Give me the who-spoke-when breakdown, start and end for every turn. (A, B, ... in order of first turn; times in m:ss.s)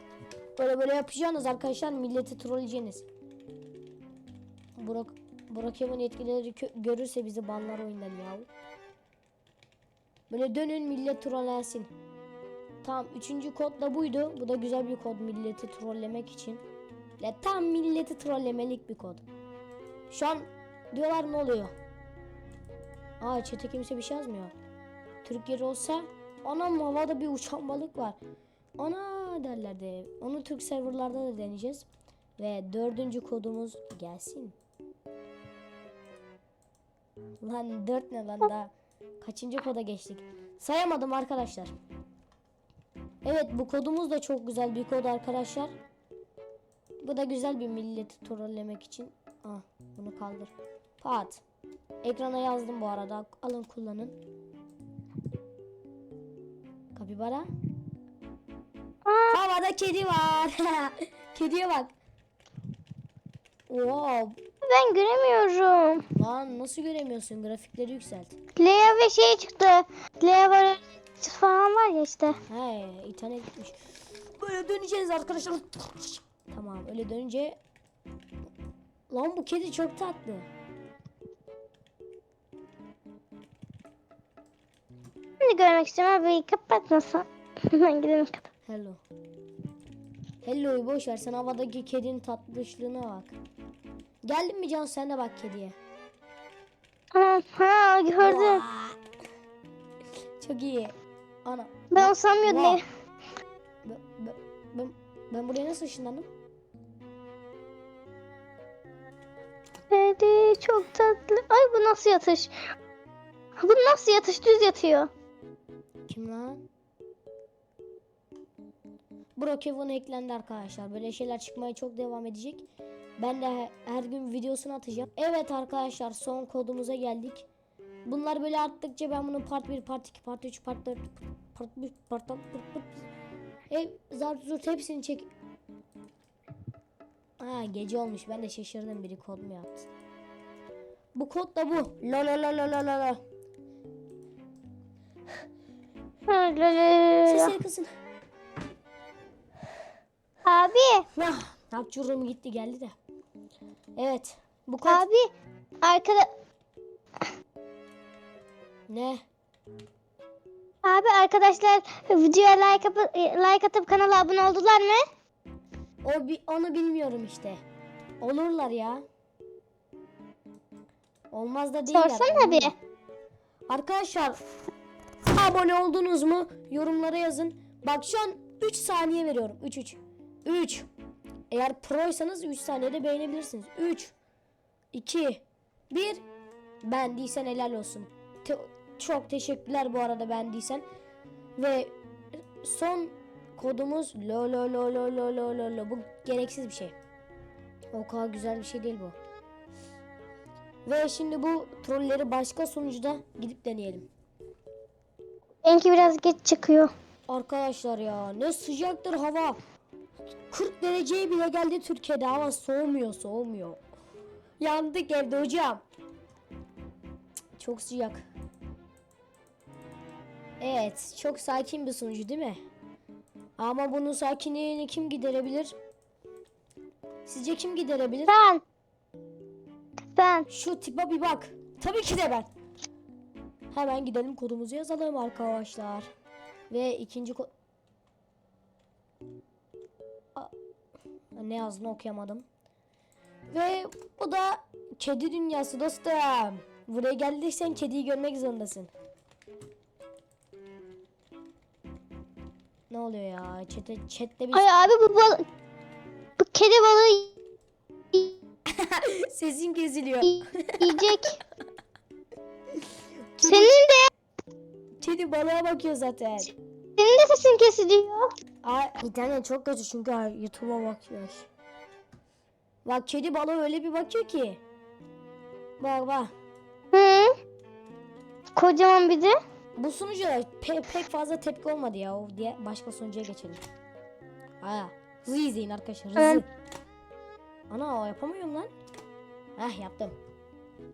0:00.6-0:03.1 A
0:04.8-0:08.5 A
0:10.3-0:11.9 A
0:12.8-0:16.6 A
0:17.2-0:19.2 A
0:20.1-0:21.7 A
0:23.2-0:24.5 A
0:25.2-0:28.2 A
0:28.8-0:31.9 A
0:32.4-0:34.6 A
0:37.4-0:41.7 A
0:43.2-0:45.7 A
0:47.0-0:51.4 A
0:52.0-0:54.2 A
0:56.9-0:57.5 A
0:59.1-0:59.4 B
0:59.3-1:01.9 A
1:03.7-1:04.4 A
1:04.6-1:06.1 B
1:06.1-1:08.3 A
1:08.6-1:12.4 B
1:12.5-1:17.6 A
1:19.1-1:20.5 A
1:25.4-1:28.5 B
1:28.7-1:29.0 A
1:30.4-1:33.4 A
1:34.2-1:35.8 A
1:37.1-1:38.6 B
1:38.2-1:39.0 A
1:40.4-1:40.9 A
1:41.4-1:42.8 A
1:41.9-1:42.8 B
1:43.8-1:46.3 A
1:49.9-1:52.5 B
1:53.6-1:55.1 B
1:56.1-1:56.6 A
1:59.4-2:02.7 A
2:03.2-2:07.5 A
2:08.1-2:13.1 A
2:13.7-2:15.3 A
2:17.4-2:19.9 A
2:21.2-2:23.2 A
2:26.3-2:27.6 B
2:27.3-2:27.9 A
2:30.4-2:31.1 B
2:31.1-2:32.9 A
2:34.0-2:35.0 A
2:34.8-2:35.3 B
2:35.8-2:36.3 B
2:38.9-2:39.2 A
2:40.8-2:45.0 B
2:46.0-2:47.6 A
2:48.2-2:49.0 A
2:51.3-2:52.8 A
2:51.9-2:52.7 B
2:53.7-2:54.4 A
2:55.3-3:00.9 A
3:01.5-3:04.1 A
3:04.9-3:06.2 A
3:06.8-3:10.8 A
3:11.6-3:17.0 A
3:17.9-3:19.2 A
3:20.8-3:24.1 A
3:25.6-3:26.9 B
3:27.3-3:29.6 A
3:30.5-3:33.8 A
3:34.6-3:35.8 A
3:37.6-3:38.2 A
3:40.6-3:42.6 A
3:43.6-3:45.8 A
3:47.3-3:48.3 A
3:48.3-3:48.6 B
3:50.2-3:50.5 B
3:50.5-3:52.5 A
3:53.7-3:56.1 A
3:56.7-3:57.5 A
4:01.4-4:02.5 A
4:03.5-4:08.9 A
4:12.9-4:14.7 A
4:14.5-4:15.5 B
4:16.4-4:17.3 B
4:18.7-4:21.0 A
4:20.2-4:21.4 B
4:23.4-4:23.8 A
4:23.4-4:24.1 B
4:25.0-4:26.5 A
4:27.0-4:28.3 B
4:28.6-4:31.5 A
4:32.8-4:34.6 A
4:35.8-4:36.3 A
4:36.9-4:37.3 B
4:38.6-4:39.4 B
4:39.8-4:43.6 A
4:44.6-4:46.5 A
4:46.2-4:46.4 B
4:47.7-4:48.7 A
4:49.6-4:50.2 A